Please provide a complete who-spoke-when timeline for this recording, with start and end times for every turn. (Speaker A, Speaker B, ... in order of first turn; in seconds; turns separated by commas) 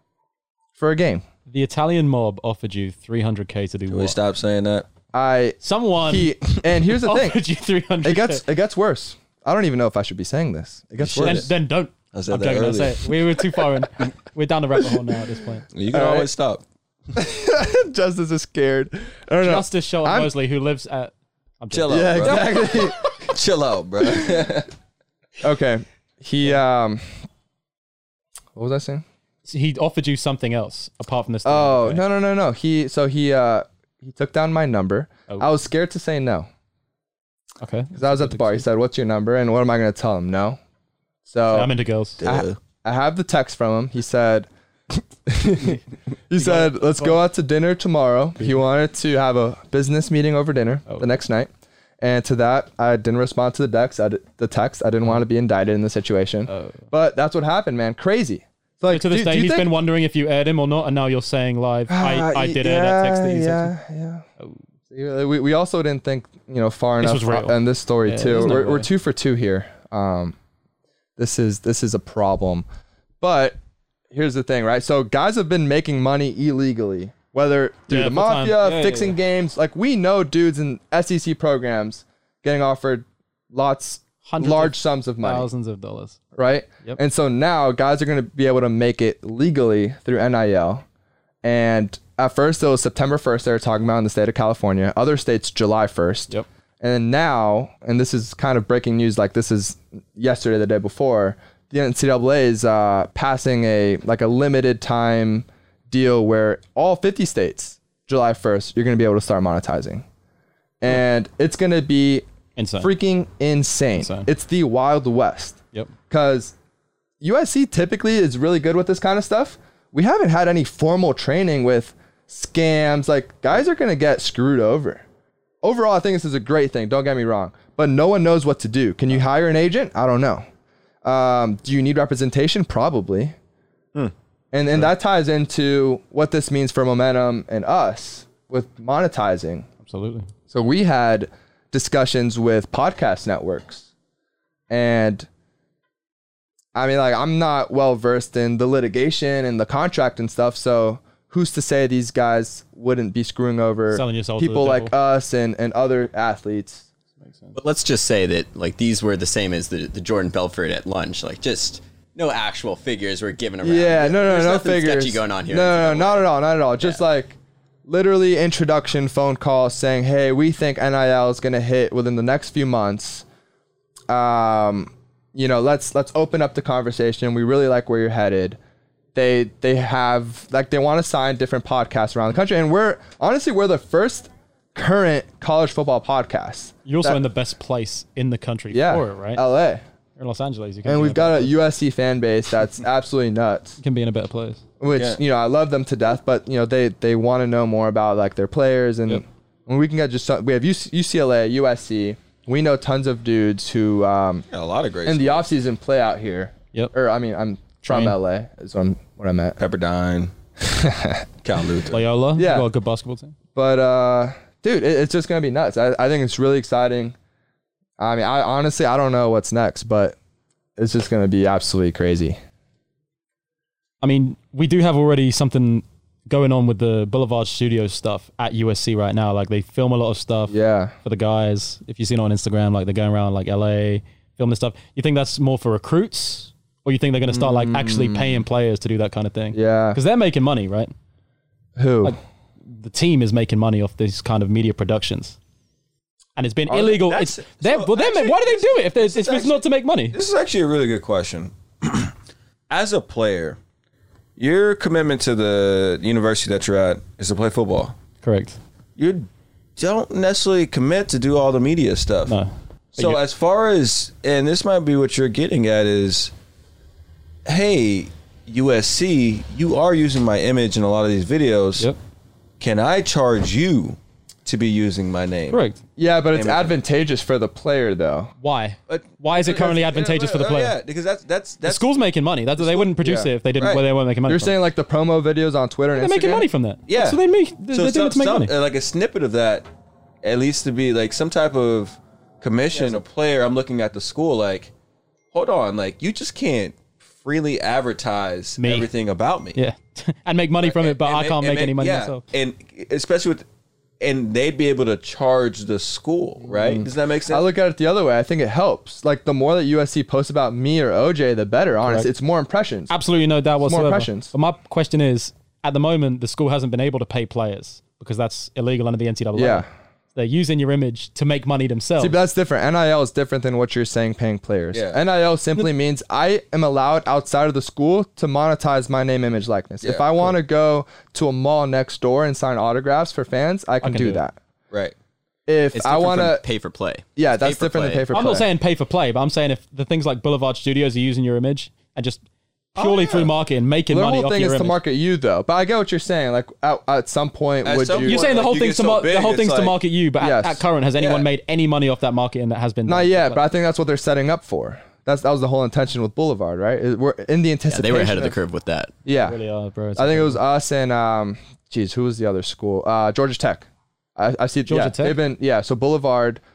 Speaker A: 0.8-1.2, Speaker B: 1.5-4.2, Speaker C: 3.9-4.9, Speaker A: 5.1-7.4, Speaker B: 5.6-8.4, Speaker A: 8.0-11.5, Speaker C: 11.0-11.5, Speaker B: 11.1-15.7, Speaker C: 12.1-13.1, Speaker C: 15.7-16.6, Speaker A: 15.9-16.3, Speaker A: 17.1-20.3, Speaker B: 19.4-22.8, Speaker C: 21.7-24.7, Speaker A: 21.9-23.0, Speaker A: 25.4-27.0, Speaker A: 28.6-29.0, Speaker B: 29.5-32.0, Speaker A: 31.4-36.5, Speaker B: 37.6-38.7, Speaker A: 38.0-40.6, Speaker A: 41.3-51.5, Speaker B: 41.5-42.2, Speaker C: 42.2-42.6, Speaker B: 46.4-47.2, Speaker A: 52.0-59.7, Speaker B: 56.5-56.8, Speaker B: 58.9-63.7, Speaker A: 61.9-64.2, Speaker A: 64.9-70.3, Speaker B: 67.0-68.9, Speaker A: 71.2-72.7, Speaker A: 73.2-73.6, Speaker A: 74.1-85.5, Speaker B: 77.9-79.2, Speaker B: 84.2-86.2, Speaker A: 86.3-90.8, Speaker A: 91.4-110.0, Speaker A: 110.8-112.3, Speaker B: 112.6-112.9, Speaker A: 112.8-116.5, Speaker B: 114.0-114.3, Speaker A: 117.2-125.0, Speaker A: 125.6-130.5, Speaker A: 131.0-133.3, Speaker A: 134.5-139.7, Speaker B: 139.9-140.3, Speaker A: 140.5-143.9, Speaker A: 144.7-145.3, Speaker A: 146.7-156.9, Speaker B: 153.9-154.9, Speaker B: 157.2-157.6, Speaker D: 157.6-166.3, Speaker A: 163.6-173.2, Speaker A: 174.1-178.6, Speaker A: 179.2-187.2, Speaker B: 186.8-189.4, Speaker A: 188.7-189.8, Speaker B: 190.2-191.6, Speaker A: 190.8-193.8, Speaker B: 193.8-194.6, Speaker A: 194.8-204.4, Speaker C: 194.9-195.2, Speaker C: 204.5-205.5, Speaker A: 205.1-209.6, Speaker B: 207.8-208.2, Speaker C: 209.6-210.3, Speaker A: 210.6-211.3, Speaker C: 211.4-212.0, Speaker B: 211.9-213.3, Speaker A: 212.4-212.7, Speaker A: 213.6-217.2, Speaker A: 218.0-220.2, Speaker A: 220.8-222.4, Speaker B: 224.0-240.9, Speaker A: 230.5-230.9, Speaker A: 237.3-238.4, Speaker A: 239.5-240.0, Speaker A: 241.8-242.2, Speaker B: 242.0-245.4, Speaker B: 246.4-250.2, Speaker C: 246.7-252.1, Speaker C: 252.7-253.6, Speaker C: 254.4-257.9, Speaker B: 258.2-258.6, Speaker C: 259.0-262.4, Speaker B: 262.3-263.2, Speaker C: 263.0-266.3, Speaker C: 267.5-271.9, Speaker C: 272.6-275.6, Speaker B: 275.5-275.8, Speaker A: 276.0-278.3, Speaker C: 276.3-276.8, Speaker B: 278.4-280.8, Speaker C: 278.9-281.9, Speaker B: 281.6-284.6, Speaker C: 282.6-282.9, Speaker A: 283.0-283.3, Speaker C: 283.6-283.8, Speaker A: 284.3-286.5, Speaker B: 285.9-288.5, Speaker C: 286.9-287.2, Speaker C: 287.7-289.7, Speaker C: 290.2-294.7, Speaker C: 295.3-299.6, Speaker B: 298.6-298.9, Speaker B: 299.6-302.2, Speaker C: 300.6-303.4, Speaker C: 304.0-307.5, Speaker A: 306.4-312.9, Speaker B: 311.8-312.1, Speaker B: 312.9-322.2, Speaker A: 313.6-314.3, Speaker A: 319.4-319.7, Speaker A: 322.0-334.4, Speaker C: 324.7-325.0, Speaker C: 329.8-330.3, Speaker B: 333.8-334.2, Speaker A: 335.5-336.4, Speaker D: 335.7-338.1, Speaker A: 337.2-338.5, Speaker B: 338.1-342.2, Speaker B: 342.8-344.8, Speaker C: 342.8-343.3, Speaker A: 343.9-348.3, Speaker C: 347.6-349.8, Speaker B: 348.0-353.5, Speaker A: 350.2-350.6, Speaker C: 351.0-351.3, Speaker A: 352.9-358.4, Speaker D: 357.7-358.9, Speaker A: 359.1-359.4, Speaker B: 359.2-360.4, Speaker A: 360.0-366.4, Speaker B: 364.7-365.2